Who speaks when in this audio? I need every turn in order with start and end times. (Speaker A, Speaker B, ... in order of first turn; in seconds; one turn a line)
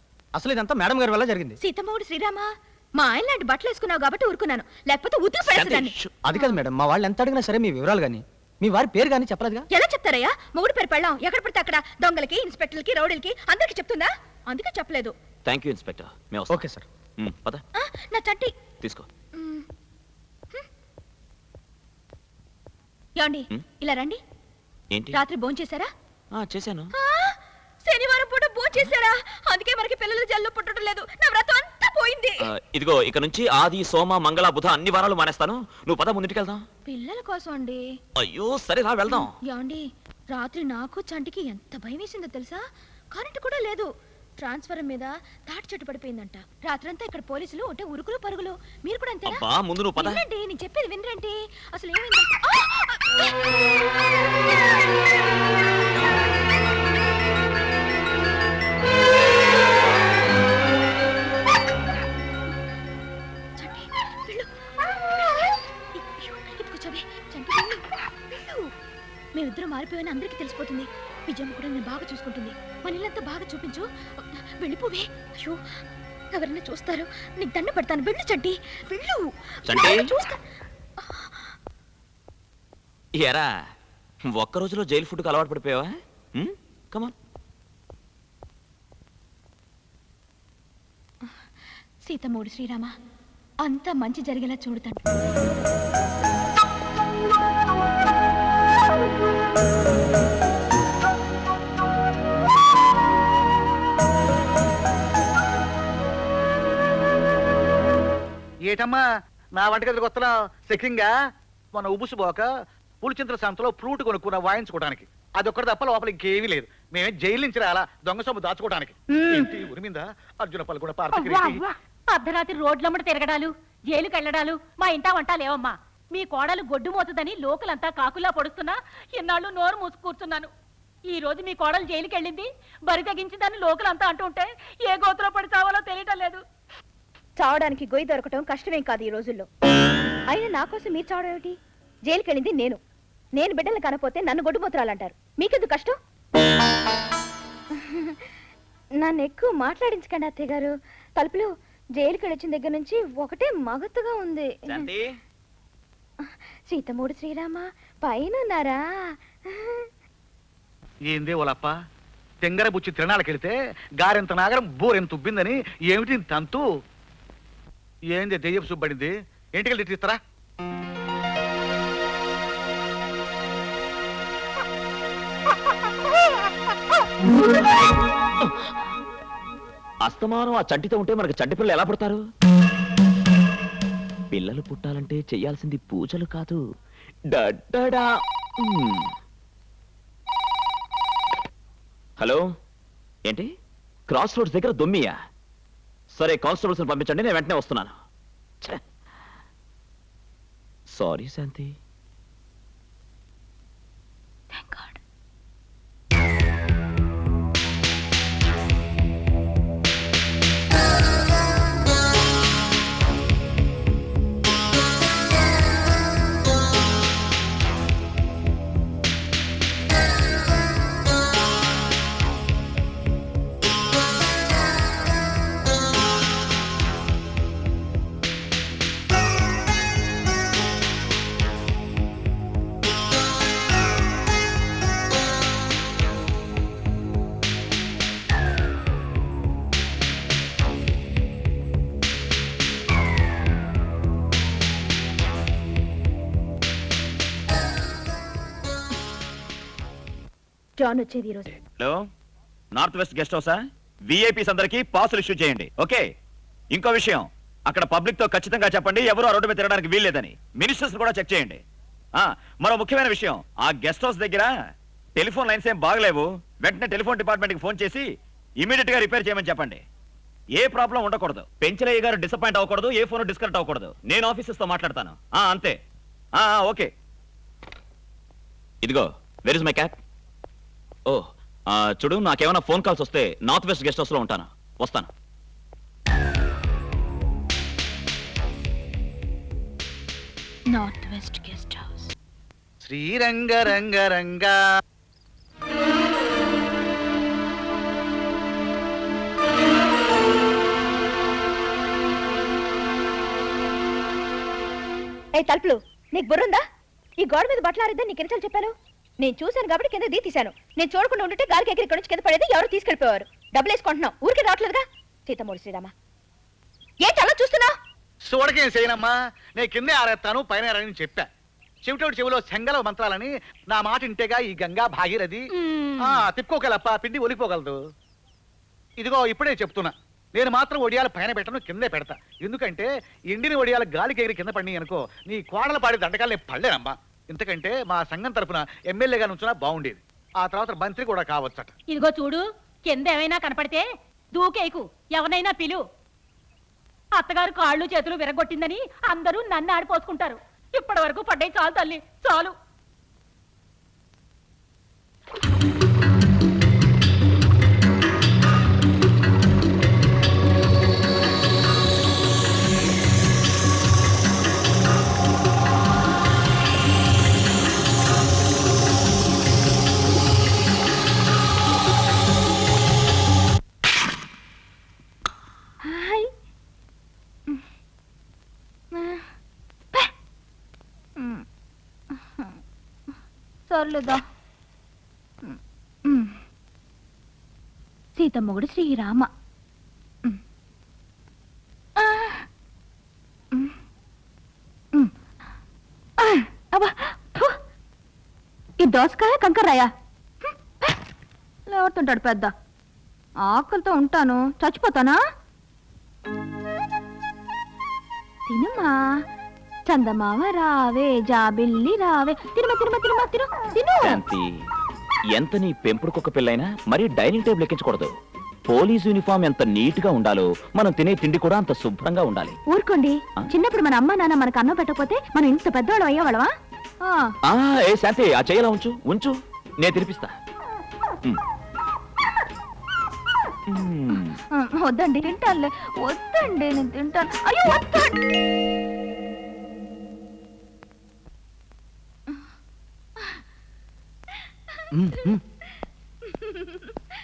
Speaker A: 0.3-1.6
Speaker B: 1.6-2.5
Speaker B: 3.0-6.5
Speaker C: 5.5-6.1
Speaker A: 6.2-9.7
Speaker B: 9.7-15.1
Speaker C: 15.4-16.6
Speaker A: 16.5-16.9
Speaker C: 17.2-17.6
Speaker B: 17.8-18.5
Speaker C: 18.8-19.1
Speaker B: 19.4-19.6
Speaker B: 23.2-24.2
Speaker C: 24.9-25.2
Speaker B: 25.1-25.9
Speaker C: 26.3-26.9
Speaker B: 26.9-27.3
Speaker B: 27.9-32.5
Speaker C: 32.5-36.6
Speaker B: 36.9-37.8
Speaker C: 38.2-39.3
Speaker B: 39.1-43.9
Speaker B: 44.4-49.4
Speaker C: 49.2-50.2
Speaker B: 50.0-53.3
Speaker B: 63.6-64.5
Speaker B: 65.0-68.7
Speaker B: 69.3-73.8
Speaker B: 74.6-75.6
Speaker B: 76.3-80.4
Speaker C: 79.7-80.0
Speaker B: 81.0-81.4
Speaker C: 83.2-83.5
Speaker C: 84.3-87.1
Speaker B: 92.1-92.9
Speaker B: 93.6-95.0
Speaker D: 108.7-109.0
Speaker D: 109.5-111.1
Speaker D: 111.7-112.4
Speaker D: 113.0-121.6
Speaker B: 119.1-119.5
Speaker E: 121.2-121.6
Speaker E: 122.1-130.5
Speaker E: 131.1-136.4
Speaker B: 137.4-139.5
Speaker B: 140.3-141.5
Speaker B: 142.1-142.8
Speaker B: 143.4-145.9
Speaker B: 147.8-148.2
Speaker B: 149.0-151.5
Speaker B: 152.0-154.9
Speaker C: 154.7-155.1
Speaker B: 156.7-158.8
Speaker D: 161.1-161.7
Speaker D: 162.4-166.6
Speaker D: 168.1-170.2
Speaker C: 180.0-182.2
Speaker C: 184.3-186.6
Speaker C: 187.3-188.1
Speaker C: 188.6-189.1
Speaker C: 194.1-195.1
Speaker C: 196.1-197.9
Speaker C: 200.9-201.7
Speaker B: 204.5-205.0
Speaker B: 250.8-251.5
Speaker C: 252.7-256.0
Speaker C: 256.7-261.6
Speaker C: 262.2-264.5
Speaker C: 265.1-268.0
Speaker C: 268.6-269.8
Speaker C: 270.6-275.8
Speaker C: 276.4-276.9
Speaker C: 278.8-280.0
Speaker C: 281.1-285.1
Speaker B: 290.7-292.1
Speaker D: 292.8-294.5
Speaker B: 305.4-306.6
Speaker B: 307.2-315.9
Speaker B: 317.0-317.7
Speaker D: 318.3-321.3
Speaker D: 321.8-325.4
Speaker E: 325.6-326.1
Speaker D: 326.0-327.8
Speaker D: 329.0-341.7
Speaker E: 341.9-343.8
Speaker E: 344.4-345.8
Speaker E: 347.2-352.5
Speaker B: 375.8-376.3
Speaker B: 378.9-379.2
Speaker B: 381.2-381.4
Speaker B: 382.1-382.5
Speaker B: 383.7-384.2
Speaker B: 385.4-386.3
Speaker B: 388.2-389.3
Speaker B: 392.0-392.4
Speaker B: 396.2-397.5
Speaker B: 398.8-399.9
Speaker B: 400.4-400.9
Speaker B: 401.7-402.5
Speaker B: 403.4-405.2
Speaker B: 408.5-409.0
Speaker B: 409.9-414.2
Speaker C: 414.0-414.5
Speaker C: 415.3-418.1
Speaker C: 418.7-422.6
Speaker B: 422.7-426.5
Speaker C: 427.5-430.3
Speaker C: 433.7-434.4
Speaker B: 434.1-438.2
Speaker A: 444.9-445.4
Speaker B: 446.3-446.9